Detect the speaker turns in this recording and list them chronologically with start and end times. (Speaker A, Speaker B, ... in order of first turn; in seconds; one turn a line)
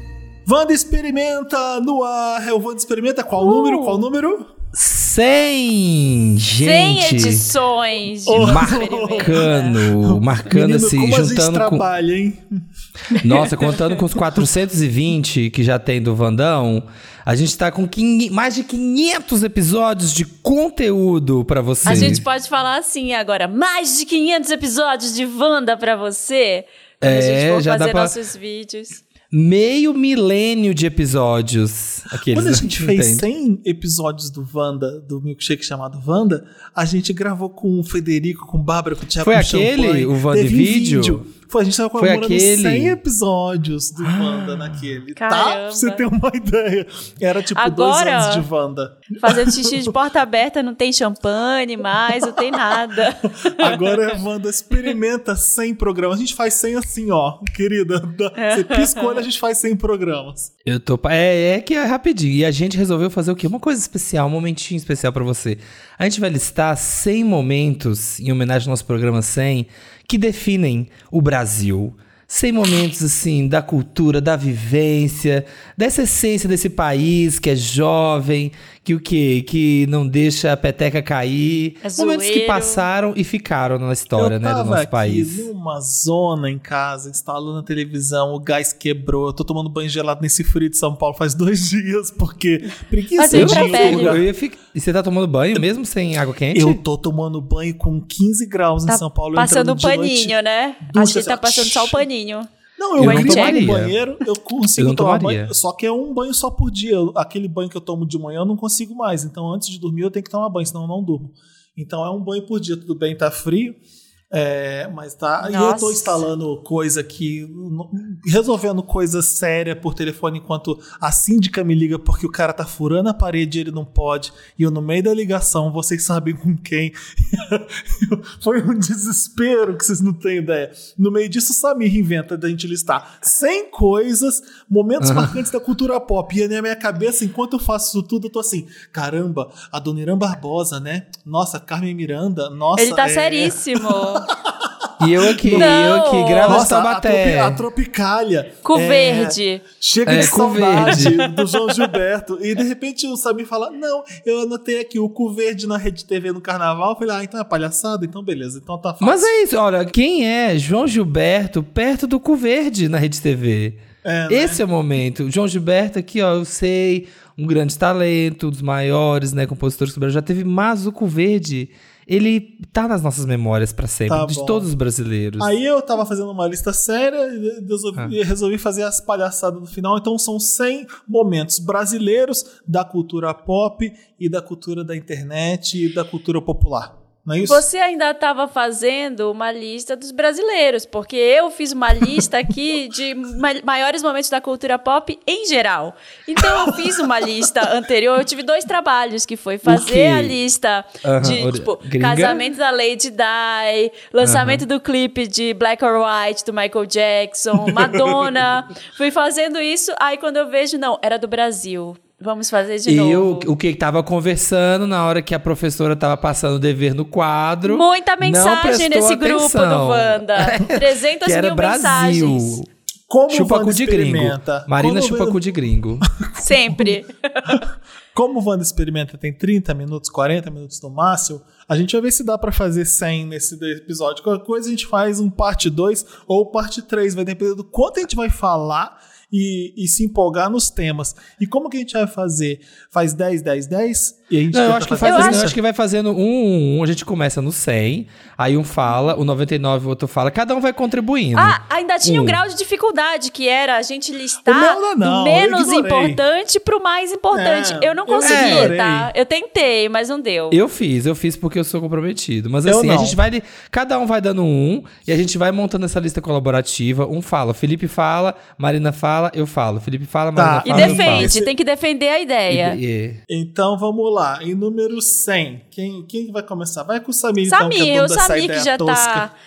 Speaker A: 0.5-4.5
Speaker B: 3.4-4.0
Speaker C: 4.7-7.5
Speaker B: 6.6-9.7
Speaker A: 8.2-12.6
Speaker C: 8.4-11.8
Speaker B: 13.1-13.5
Speaker C: 13.2-22.2
Speaker B: 21.8-29.0
Speaker A: 21.9-22.2
Speaker C: 27.0-28.1
Speaker C: 29.3-33.3
Speaker A: 32.3-49.9
Speaker C: 39.2-41.2
Speaker C: 42.0-43.0
Speaker C: 44.0-44.8
Speaker B: 45.1-46.0
Speaker B: 47.5-48.4
Speaker B: 49.2-54.0
Speaker A: 52.0-52.8
Speaker A: 53.4-60.5
Speaker B: 58.4-59.2
Speaker C: 60.6-85.5
Speaker B: 81.8-82.8
Speaker A: 84.1-94.2
Speaker B: 93.2-94.2
Speaker C: 93.3-96.8
Speaker A: 96.5-102.0
Speaker B: 98.9-103.7
Speaker A: 102.8-113.8
Speaker C: 103.0-103.9
Speaker C: 104.8-105.5
Speaker A: 114.3-145.9
Speaker B: 115.4-116.3
Speaker C: 135.0-135.3
Speaker B: 142.8-144.3
Speaker C: 145.0-147.6
Speaker B: 145.5-146.6
Speaker A: 146.4-159.3
Speaker B: 148.6-149.6
Speaker C: 150.0-151.2
Speaker B: 150.8-151.6
Speaker C: 159.0-175.5
Speaker A: 164.0-164.6
Speaker A: 174.1-174.7
Speaker A: 175.4-187.6
Speaker B: 187.4-213.5
Speaker C: 199.7-200.4
Speaker C: 201.0-202.4
Speaker C: 204.2-204.6
Speaker A: 207.8-208.2
Speaker C: 212.8-222.7
Speaker B: 217.7-222.6
Speaker A: 223.1-225.4
Speaker C: 223.3-226.1
Speaker A: 226.0-226.9
Speaker B: 226.4-227.6
Speaker A: 228.1-245.6
Speaker C: 244.5-252.4
Speaker B: 245.0-245.4
Speaker B: 251.3-260.6
Speaker A: 254.4-256.2
Speaker A: 257.3-259.1
Speaker C: 258.2-258.7
Speaker C: 260.5-271.3
Speaker A: 262.6-263.2
Speaker A: 270.3-271.5
Speaker B: 270.6-272.8
Speaker C: 272.5-273.2
Speaker A: 273.3-279.3
Speaker B: 277.4-279.3